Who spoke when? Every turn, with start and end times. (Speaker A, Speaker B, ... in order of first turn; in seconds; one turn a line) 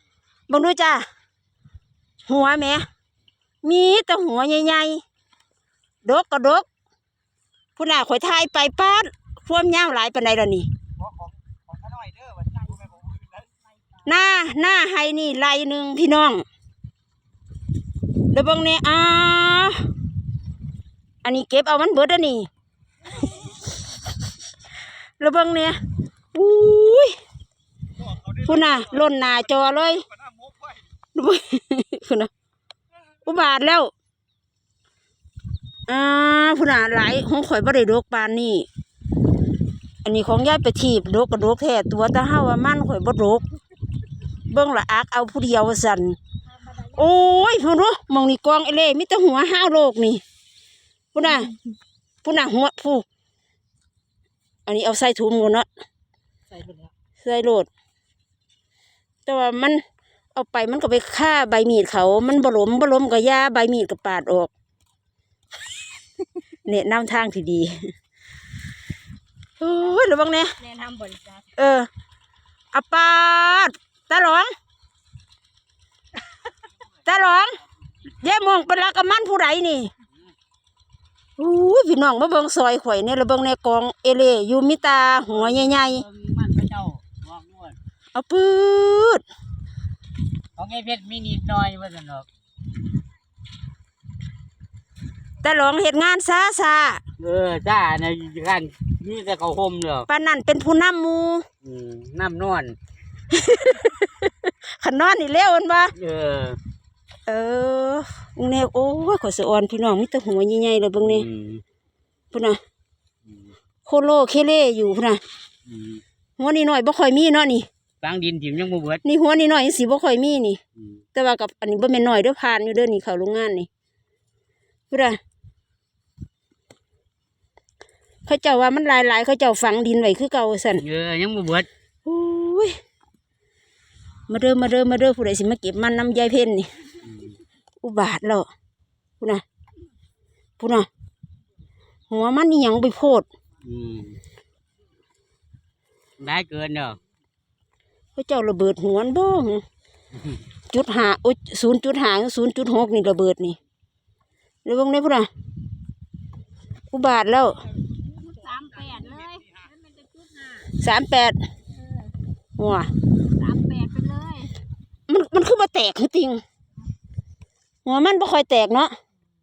Speaker A: 0.5-1.0
Speaker A: 2.3-2.9
Speaker A: 3.6-5.0
Speaker A: 6.0-6.7
Speaker A: 7.8-10.7
Speaker A: 14.0-16.4
Speaker A: 18.3-19.9
Speaker A: 21.2-22.5
Speaker A: 25.2-25.8
Speaker A: 26.3-27.1
Speaker A: 28.3-30.1
Speaker A: 31.1-32.3
Speaker A: 33.2-33.9
Speaker A: 35.9-38.7
Speaker A: 40.0-43.4
Speaker A: 44.5-46.2
Speaker B: 46.5-47.3
Speaker A: 46.9-50.2
Speaker A: 51.1-51.5
Speaker A: 52.2-53.0
Speaker A: 54.6-55.6
Speaker B: 56.5-56.9
Speaker A: 57.2-57.7
Speaker A: 59.2-59.8
Speaker A: 60.3-64.5
Speaker A: 66.6-67.8
Speaker A: 69.6-70.5
Speaker B: 70.6-71.5
Speaker A: 71.5-71.9
Speaker A: 72.7-74.5
Speaker A: 77.0-77.6
Speaker A: 78.2-79.9
Speaker A: 81.4-86.0
Speaker C: 85.2-87.8
Speaker A: 88.1-89.2
Speaker C: 90.6-92.2
Speaker A: 95.4-97.0
Speaker C: 97.2-100.1
Speaker A: 100.1-101.5
Speaker C: 101.6-102.8
Speaker A: 103.3-105.9
Speaker C: 105.9-106.6
Speaker A: 107.3-111.3
Speaker C: 111.0-111.6
Speaker A: 112.3-112.6
Speaker A: 113.8-115.2
Speaker C: 115.7-116.0
Speaker A: 116.4-117.7
Speaker C: 118.0-119.0
Speaker A: 119.0-120.6
Speaker A: 121.1-123.7
Speaker A: 124.9-125.2
Speaker A: 128.2-130.8
Speaker C: 130.8-131.7
Speaker A: 132.0-132.7
Speaker A: 134.3-136.7
Speaker C: 137.0-137.4
Speaker A: 137.8-138.5
Speaker A: 140.6-140.9
Speaker A: 142.1-143.2
Speaker C: 143.6-144.2
Speaker C: 146.2-147.0
Speaker A: 148.2-149.6
Speaker A: 150.7-153.6
Speaker A: 154.6-155.3
Speaker A: 156.9-157.7
Speaker B: 157.9-160.7
Speaker A: 160.8-161.4
Speaker A: 162.6-162.9
Speaker B: 163.2-164.5
Speaker A: 165.1-166.4
Speaker A: 167.8-168.9